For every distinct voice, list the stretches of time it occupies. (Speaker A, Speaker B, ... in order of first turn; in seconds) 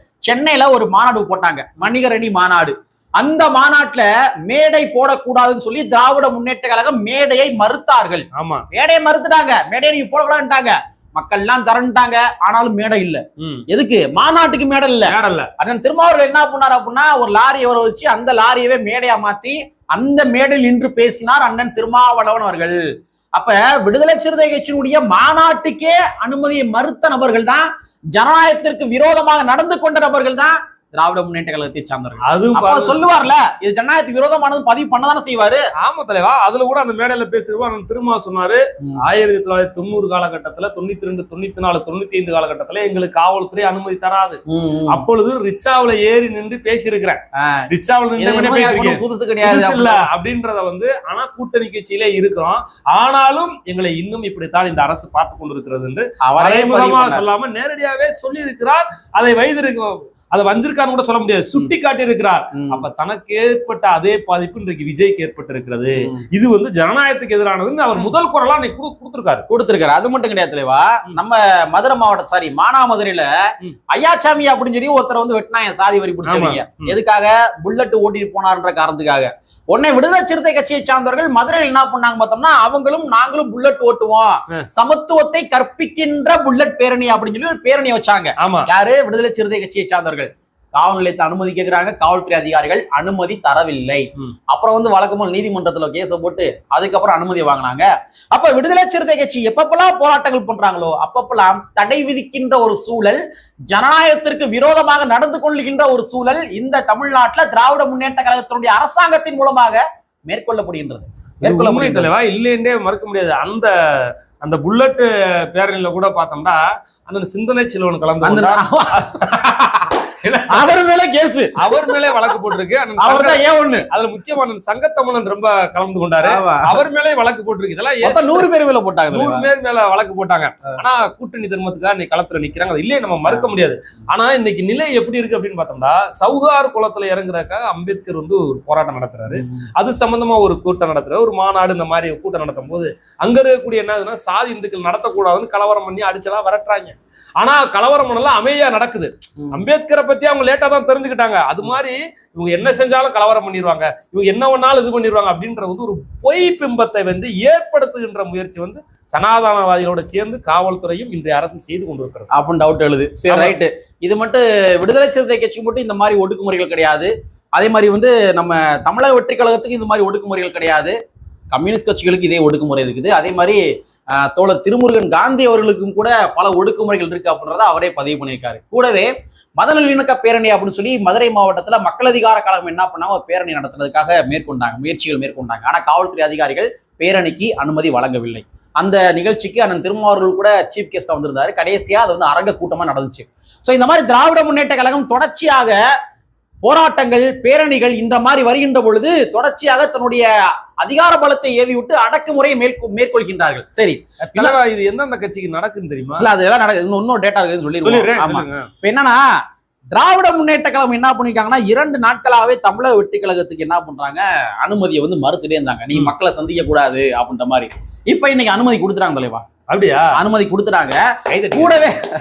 Speaker A: 0.3-22.8, 23.4-35.6, 44.5-45.0, 47.4-47.7, 48.2-50.1, 56.2-57.2, 62.5-62.8, 69.5-73.3, 73.9-103.2, 103.7-112.1, 118.2-119.9, 120.5-122.0, 123.0-123.9, 126.2-126.8, 128.0-129.5, 139.3-139.7, 162.3-170.9, 171.5-173.6, 174.2-195.8, 196.6-204.6, 206.2-209.2, 209.9-219.4, 220.2-221.0, 221.5-222.1
Speaker B: 8.3-8.7, 13.4-13.7, 15.1-15.5, 32.2-33.0, 35.8-69.5, 76.3-77.0, 88.4-88.7, 111.4-120.8, 121.6-128.5, 129.1-162.3, 163.3-163.6, 204.2-206.3, 207.8-208.7, 219.7-220.2, 221.3-221.9